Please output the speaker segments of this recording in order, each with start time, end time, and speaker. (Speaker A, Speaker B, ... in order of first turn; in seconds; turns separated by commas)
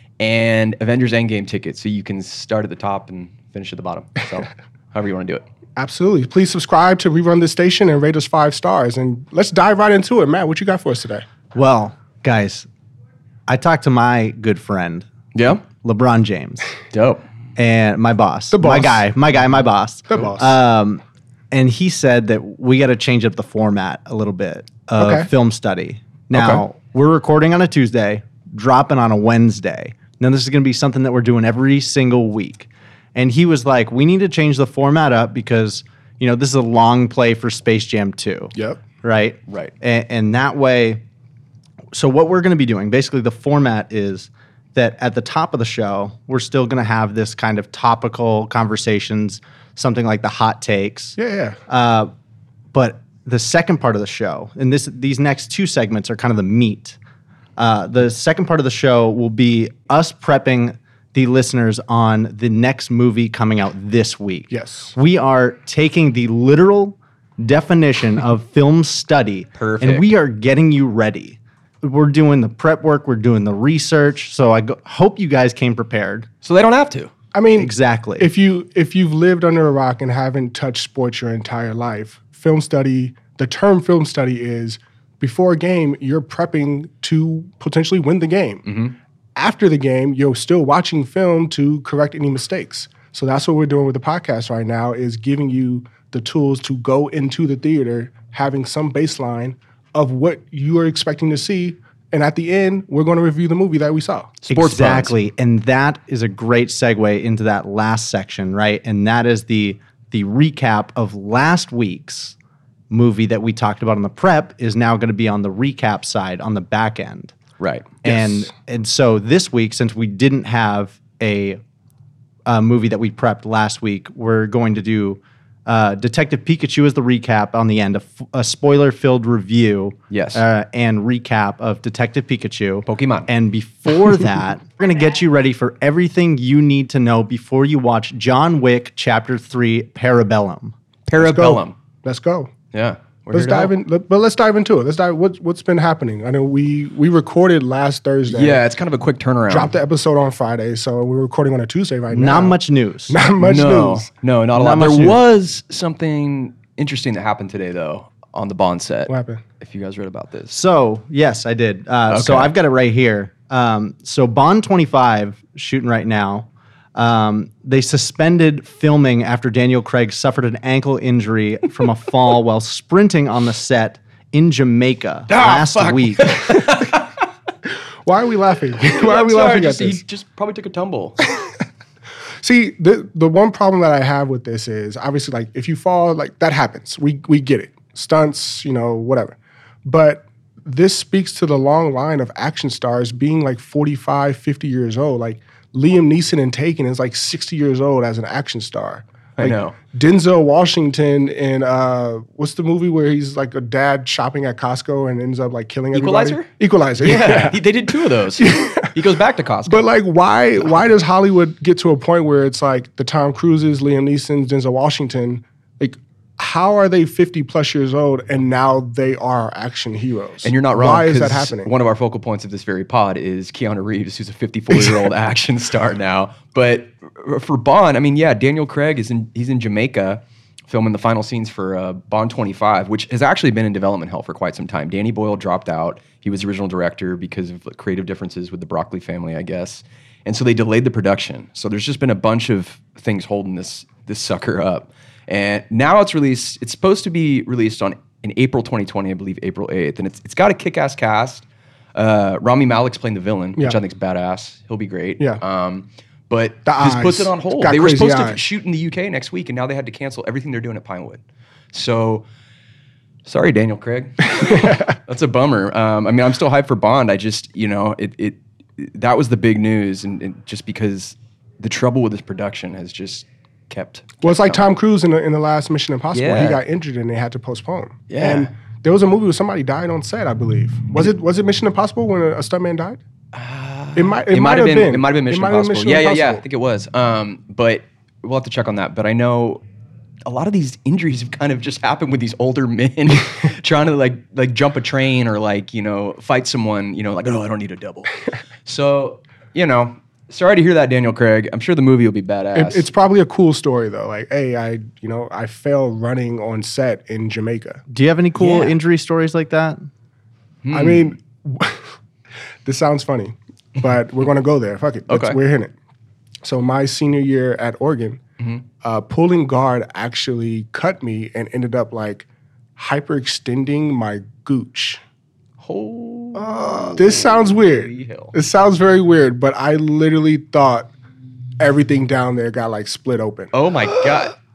Speaker A: 0.2-5.4, Speaker B: 5.8-11.3, Speaker C: 11.5-12.7, Speaker C: 13.5-15.1, Speaker A: 15.3-15.6, Speaker C: 15.7-16.7, Speaker A: 16.9-17.2, Speaker C: 17.6-41.0, Speaker B: 18.5-19.1, Speaker B: 20.1-20.6, Speaker B: 25.0-25.3, Speaker B: 26.3-26.6, Speaker B: 38.5-38.8, Speaker C: 41.9-51.1, Speaker B: 51.2-51.6, Speaker C: 51.7-52.1, Speaker C: 52.7-57.0, Speaker C: 57.6-76.3, Speaker B: 64.5-64.9, Speaker A: 69.5-70.1, Speaker A: 76.4-77.1, Speaker B: 77.3-88.7, Speaker C: 77.5-78.3, Speaker A: 88.7-88.9, Speaker B: 89.4-104.4, Speaker A: 104.5-105.1, Speaker C: 104.5-112.3, Speaker C: 112.9-117.3, Speaker A: 117.6-118.0, Speaker C: 118.0-121.6, Speaker C: 122.5-140.7, Speaker A: 130.1-130.4, Speaker A: 132.9-133.3, Speaker A: 141.1-141.8, Speaker B: 141.2-142.5, Speaker A: 142.7-143.7, Speaker B: 143.3-148.6, Speaker A: 148.3-149.7, Speaker B: 149.5-152.6, Speaker C: 152.1-153.2, Speaker B: 153.1-154.1, Speaker A: 153.4-160.6, Speaker C: 154.6-155.2, Speaker B: 159.1-159.4, Speaker C: 160.5-176.4, Speaker A: 162.1-162.5, Speaker A: 175.3-177.1, Speaker B: 178.1-180.0, Speaker A: 178.9-181.2, Speaker B: 182.4-207.6, Speaker A: 199.4-199.8, Speaker A: 205.9-206.5, Speaker A: 207.0-209.8, Speaker B: 208.3-208.9, Speaker B: 209.7-221.7, Speaker A: 220.4-261.2, Speaker B: 256.6-258.4, Speaker A: 261.7-262.2, Speaker A: 263.2-274.6, Speaker B: 264.4-264.8, Speaker B: 274.2-283.0, Speaker A: 276.1-276.6, Speaker A: 278.1-278.5, Speaker A: 283.3-289.6, Speaker B: 283.9-286.4, Speaker A: 290.2-302.9, Speaker B: 302.5-307.8, Speaker C: 307.9-309.8, Speaker A: 308.4-308.7, Speaker A: 310.6-311.1, Speaker B: 310.7-311.8, Speaker B: 312.6-315.7, Speaker A: 315.1-315.4, Speaker B: 316.4-318.2, Speaker B: 318.8-325.0, Speaker A: 325.6-328.3, Speaker B: 326.3-330.9, Speaker B: 331.6-333.5, Speaker A: 333.5-334.3